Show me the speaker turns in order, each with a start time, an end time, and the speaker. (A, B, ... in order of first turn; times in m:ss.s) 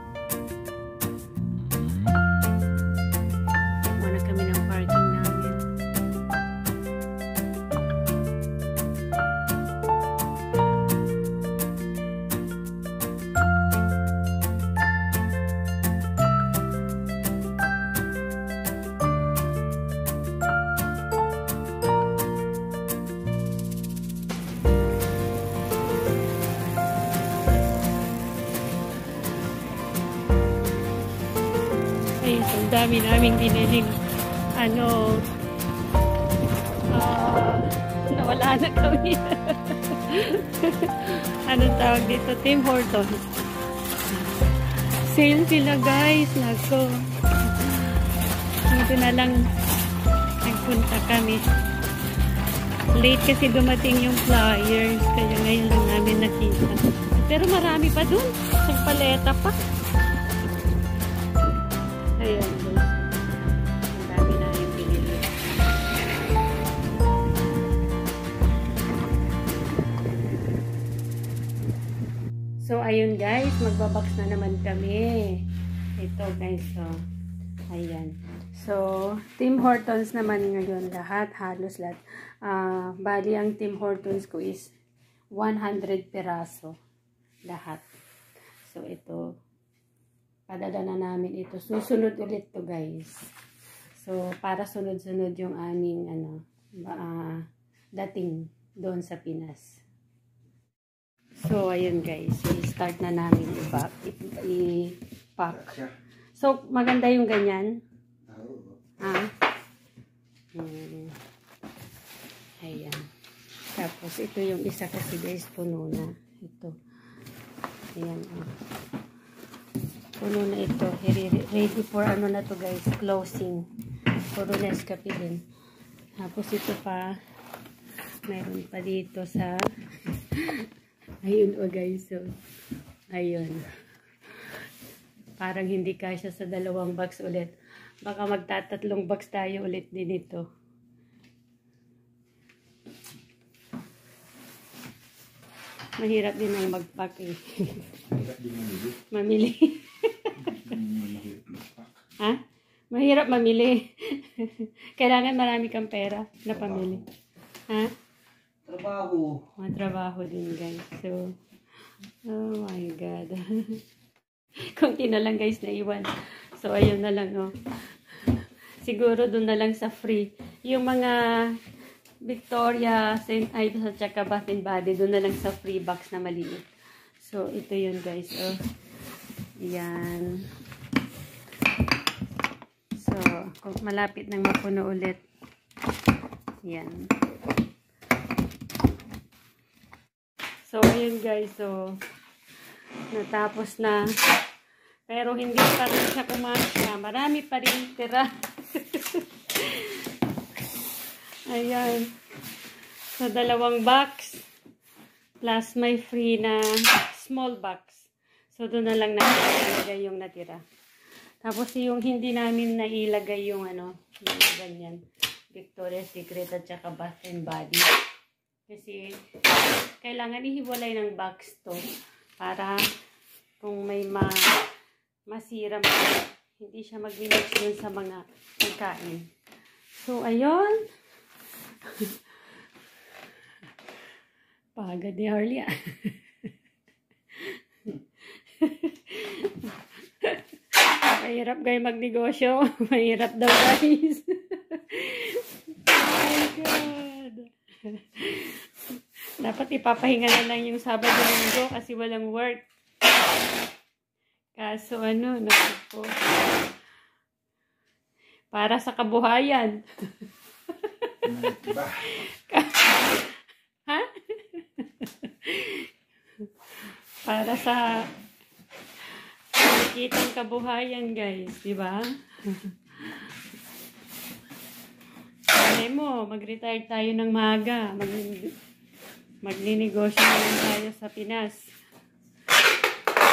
0:03.9-0:05.7 A
0:32.2-0:34.0 A
0:34.5-0:35.3 A
0:36.9-0:43.3 A
0:44.1-0:48.1 A
0:48.7-0:49.5 A
0:50.4-0:51.5 A
0:52.9-0:59.6 A
1:02.1-1:03.2 A
1:03.9-1:05.6 A
1:12.6-1:17.0 A
1:17.7-1:24.7 A
1:25.3-1:26.8 A
1:27.4-1:27.9 A
1:28.6-1:29.4 A
1:30.5-1:33.3 A
1:33.9-1:39.8 A
1:41.4-1:47.8 A
1:48.3-1:48.7 B
1:49.0-1:49.3 A
1:50.5-1:51.2 A
1:52.6-1:53.1 A
1:53.7-1:56.8 A
1:57.9-1:58.6 A
2:00.2-2:05.5 A
2:06.2-2:07.2 A
2:08.2-2:10.7 A
2:11.2-2:12.4 A
2:13.1-2:14.6 A
2:15.4-2:20.5 A
2:26.0-2:28.0 A
2:28.1-2:29.0 B
2:29.1-2:30.8 A
2:30.6-2:31.9 B
2:32.2-2:37.1 A
2:37.7-2:37.9 A
2:38.6-2:39.4 B
2:39.6-2:41.4 A
2:42.2-2:43.8 A
2:44.6-2:51.6 A
2:52.2-2:56.7 A
2:57.2-2:58.7 A
2:59.6-3:00.5 A
3:03.0-3:05.2 A
3:06.6-3:07.1 A
3:10.6-3:12.0 A
3:13.1-3:14.3 A
3:15.1-3:20.1 A
3:21.4-3:22.2 A
3:23.1-3:24.5 A
3:25.4-3:30.6 A
3:31.4-3:38.0 A
3:38.7-3:39.2 A
3:40.0-3:41.9 A
3:42.4-3:42.8 A
3:43.6-3:44.7 A
3:45.3-3:49.3 A
3:50.0-3:50.9 A
3:51.8-3:52.6 A
3:54.7-3:56.5 A
3:57.3-4:08.7 A
4:09.4-4:12.6 A
4:14.6-4:16.3 A
4:18.5-4:28.1 A
4:21.4-4:22.0 B
4:29.0-4:33.4 A
4:35.5-4:38.6 A
4:39.4-4:41.7 A